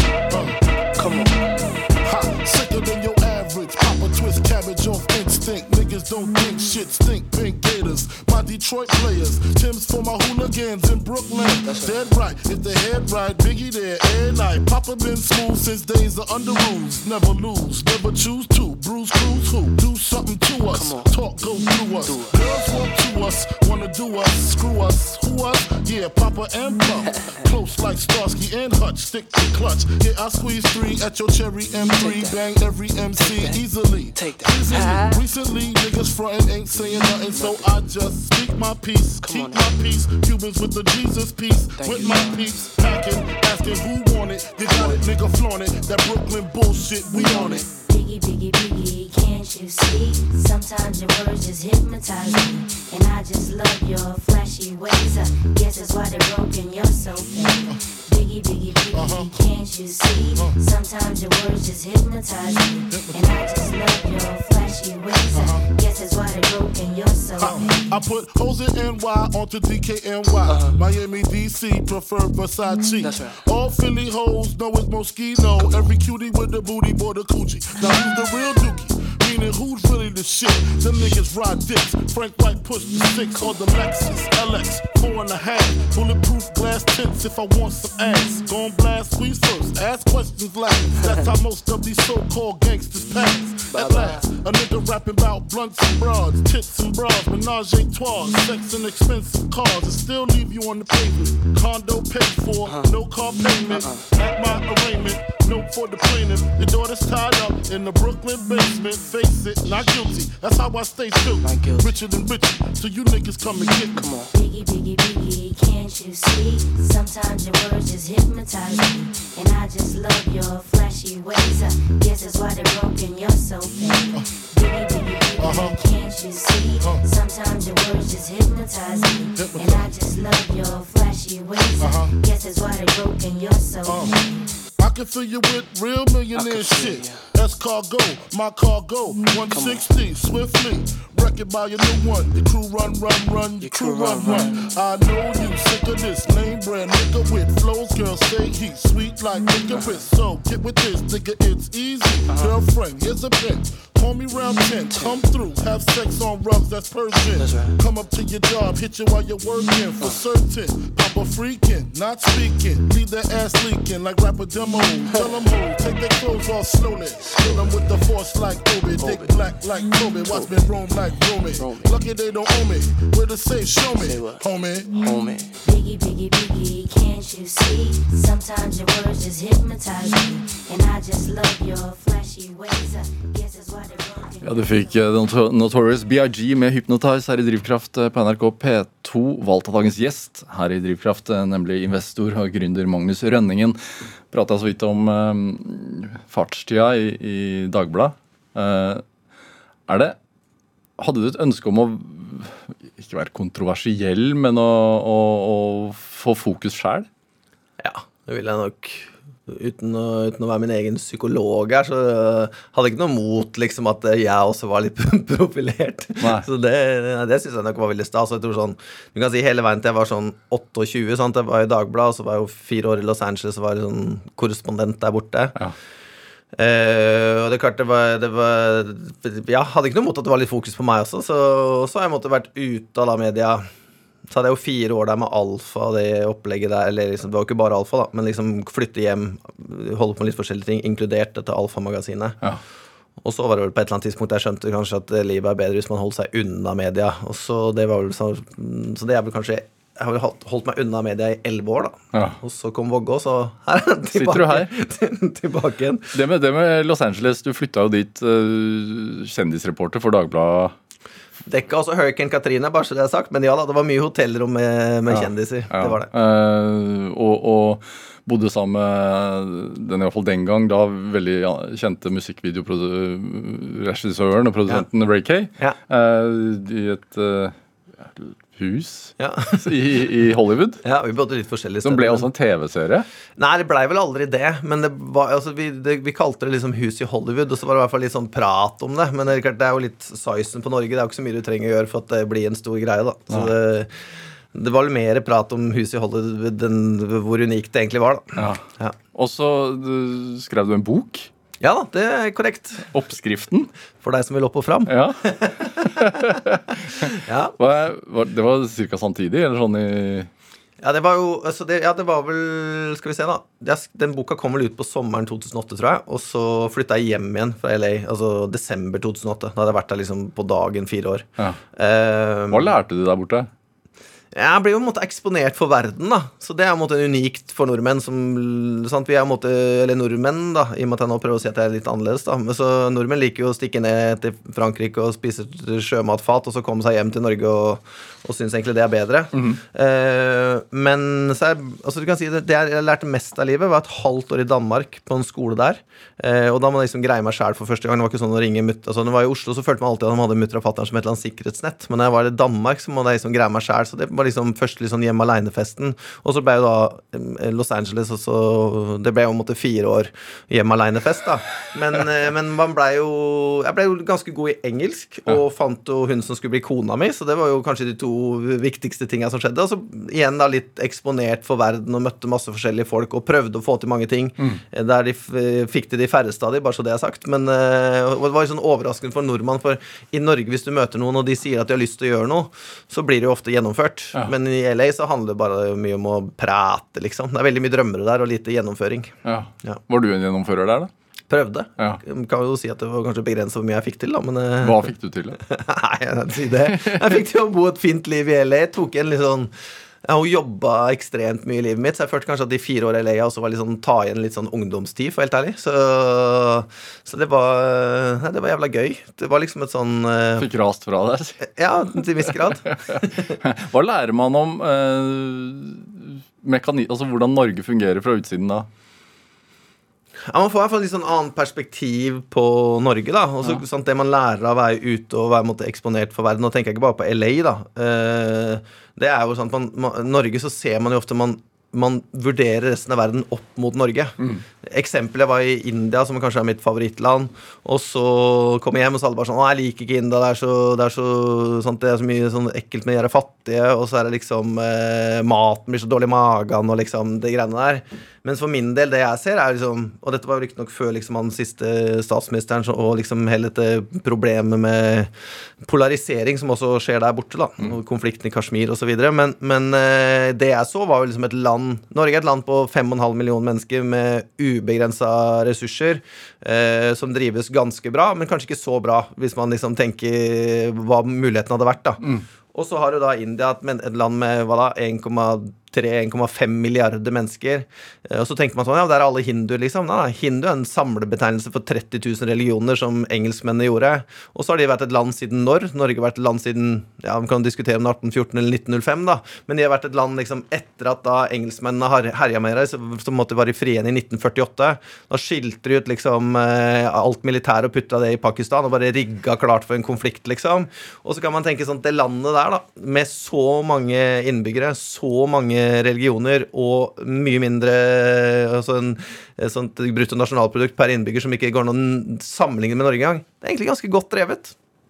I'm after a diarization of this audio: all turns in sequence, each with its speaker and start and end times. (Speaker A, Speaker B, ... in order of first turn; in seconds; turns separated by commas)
Speaker A: 0.3-1.2, Speaker B: 1.0-1.8, Speaker A: 2.0-47.7, Speaker B: 11.7-12.0, Speaker B: 20.7-22.9, Speaker B: 27.0-27.6, Speaker B: 31.8-32.4, Speaker B: 33.1-35.2, Speaker B: 36.7-37.8, Speaker B: 39.2-39.8, Speaker B: 41.8-42.7, Speaker B: 44.6-45.1, Speaker B: 47.1-47.6, Speaker C: 47.2-67.9, Speaker A: 58.9-59.3, Speaker A: 62.9-63.2, Speaker A: 65.3-65.7, Speaker A: 67.4-114.2, Speaker B: 70.5-70.8, Speaker B: 73.0-73.4, Speaker B: 93.7-94.3, Speaker B: 102.6-102.9, Speaker B: 103.6-104.0, Speaker B: 111.4-112.0, Speaker B: 113.9-114.3, Speaker C: 114.3-134.6, Speaker A: 125.4-125.8, Speaker A: 129.4-129.9, Speaker A: 131.8-132.1, Speaker A: 133.8-134.1, Speaker A: 134.8-174.9, Speaker B: 136.3-137.3, Speaker B: 139.5-139.9, Speaker B: 143.6-144.7, Speaker B: 149.7-150.0, Speaker B: 152.3-152.6, Speaker B: 154.9-155.2, Speaker B: 157.4-157.8, Speaker B: 167.3-168.1, Speaker B: 169.0-169.4, Speaker B: 170.3-171.0, Speaker B: 171.5-172.1, Speaker B: 173.9-175.6, Speaker C: 175.6-184.9, Speaker D: 184.4-193.8, Speaker D: 194.3-199.0, Speaker D: 199.9-200.2, Speaker D: 201.0-207.1, Speaker E: 207.8-225.6, Speaker D: 216.2-216.4, Speaker E: 226.6-233.7, Speaker E: 234.3-242.4, Speaker E: 243.2-256.1, Speaker D: 254.1-254.7, Speaker D: 256.1-260.8, Speaker E: 261.5-266.1, Speaker D: 265.1-280.8, Speaker E: 279.2-279.9, Speaker E: 280.8-282.3, Speaker D: 281.8-283.1, Speaker E: 283.4-293.9, Speaker E: 294.5-298.9, Speaker D: 298.4-298.6, Speaker D: 299.1-301.3, Speaker E: 301.6-302.9, Speaker D: 302.9-303.7, Speaker E: 304.0-306.4, Speaker D: 304.9-306.8, Speaker E: 307.0-307.6, Speaker D: 307.6-310.3, Speaker E: 310.8-322.7, Speaker D: 322.5-323.5, Speaker E: 324.3-389.8, Speaker D: 339.3-339.6, Speaker D: 389.2-390.9, Speaker E: 391.3-394.9, Speaker D: 394.6-395.4, Speaker E: 395.4-399.5, Speaker D: 396.8-397.1, Speaker E: 400.0-410.5, Speaker D: 410.4-411.4, Speaker E: 411.4-413.4, Speaker D: 412.2-418.7, Speaker E: 420.3-455.1, Speaker E: 455.6-514.5